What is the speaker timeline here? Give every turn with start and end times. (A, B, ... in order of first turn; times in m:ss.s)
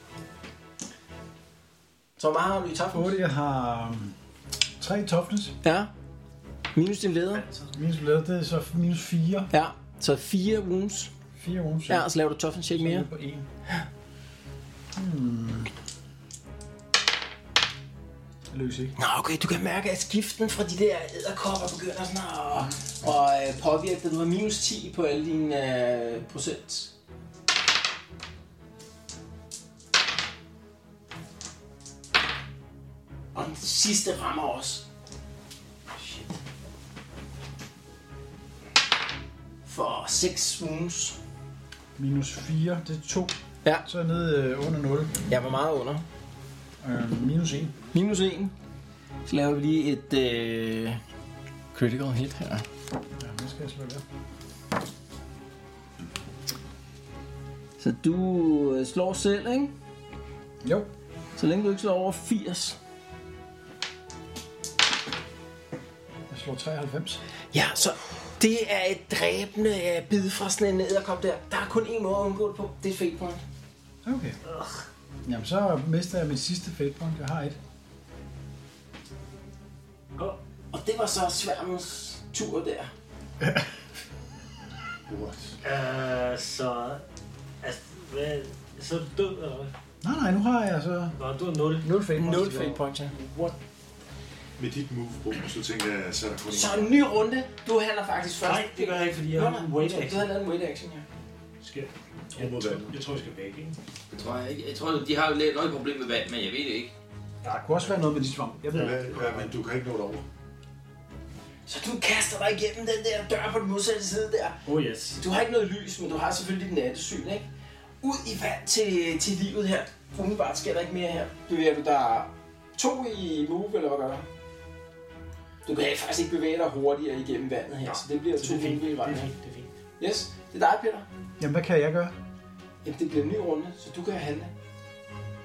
0:02.2-0:03.2 A
0:02.9-0:04.1 B
0:04.8-0:05.6 B
0:05.6-0:05.9 A
0:06.7-0:07.5 A
0:07.7-0:09.5 B
0:09.5-0:11.1 A
0:11.4-0:12.1 B
0:11.9-0:13.1 A
0:12.7-0:13.4 B
0:14.9-0:15.7 B
0:18.5-0:18.9 B
0:19.0-0:26.9 A
0:33.3-0:34.8 A
0:36.0-0:36.4 A
0:39.6-0:41.2 A
0:42.0-0:45.2 B
0:45.3-0:46.0 A
0:46.8-0:47.9 B
0:47.9-0:48.5 A
0:49.2-0:51.0 A
0:51.7-0:52.6 A
0:53.2-0:54.0 B
0:57.8-0:59.7 A
1:00.6-1:00.9 B
1:01.4-1:02.8 A
1:06.3-1:07.2 B
1:07.5-1:13.4 A
1:14.0-1:14.4 B
1:14.4-1:14.8 C
1:15.2-1:17.6 B
1:20.7-1:22.9 A
1:25.1-1:25.6 D
1:25.6-1:27.0 C
1:27.6-1:29.7 C
1:30.0-1:31.1 B
1:31.2-1:32.6 C
1:31.8-1:32.8 B
1:32.1-1:33.1 A
1:33.1-1:33.6 C
1:34.6-1:37.0 D
1:36.5-1:41.0 A
1:38.4-1:40.3 C
1:41.6-1:43.8 C
1:42.3-1:43.0 D
1:44.1-1:46.9 E
1:47.4-1:49.5 C
1:47.6-1:49.0 B
1:48.7-1:50.2 D
1:51.7-1:54.6 A
1:54.6-1:55.2 C
1:55.2-1:57.5 A
1:58.0-2:04.2 A
2:05.6-2:09.3 A
2:07.8-2:09.7 C
2:10.0-2:11.1 A
2:11.4-2:12.1 B
2:12.8-2:14.5 A